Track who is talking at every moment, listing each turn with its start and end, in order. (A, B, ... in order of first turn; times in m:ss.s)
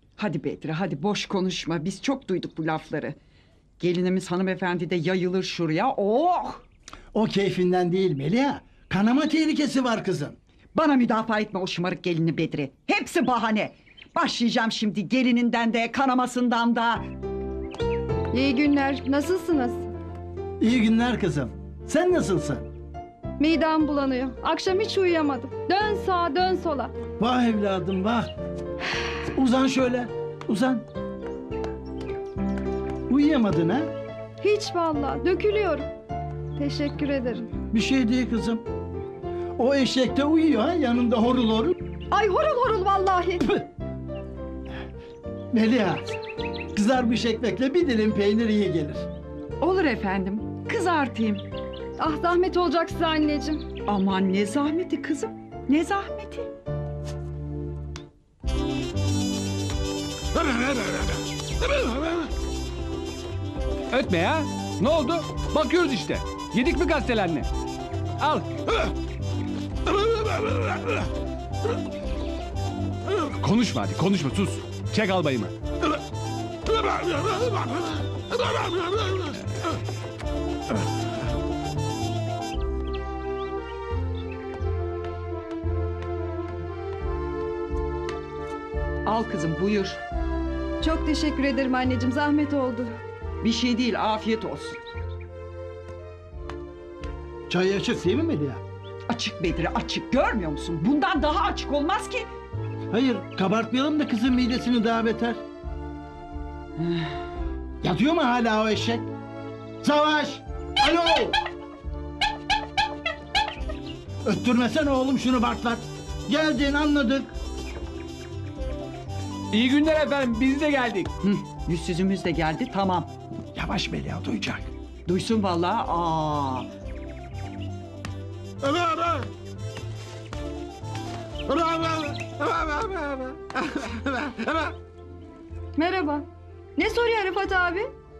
0:00.2-0:03.2 A
0:03.8-0:06.6 A
0:07.1-0:10.4 B
0:10.8-0:17.0 A
0:18.3-0:19.9 C
0:20.6-0:22.7 B
0:23.4-0:26.9 C
0:27.2-0:28.3 B
0:29.4-0:30.9 B
0:33.1-0:33.9 B
0:34.4-0:35.9 C
0:36.6-0:37.5 C
0:37.6-0:38.6 B
0:39.6-0:41.8 B
0:42.1-0:43.4 C
0:45.5-0:46.0 B
0:46.8-0:49.1 B
0:49.6-0:51.5 A
0:52.0-0:53.7 C
0:53.9-0:56.5 A
1:03.9-1:07.5 D
1:08.2-1:08.5 D
1:13.1-1:15.5 D
1:29.1-1:30.0 A
1:30.8-1:32.9 C
1:33.4-1:34.8 A
1:37.5-1:38.6 B
1:39.1-1:42.3 A
1:42.9-1:45.4 B
1:47.8-1:49.1 B
1:49.8-1:51.4 B
1:54.2-1:57.3 B
1:59.5-2:01.1 D
2:01.2-2:03.1 A
2:03.6-2:04.7 B
2:05.1-2:06.7 A
2:15.8-2:16.2 C
2:16.8-2:17.9 C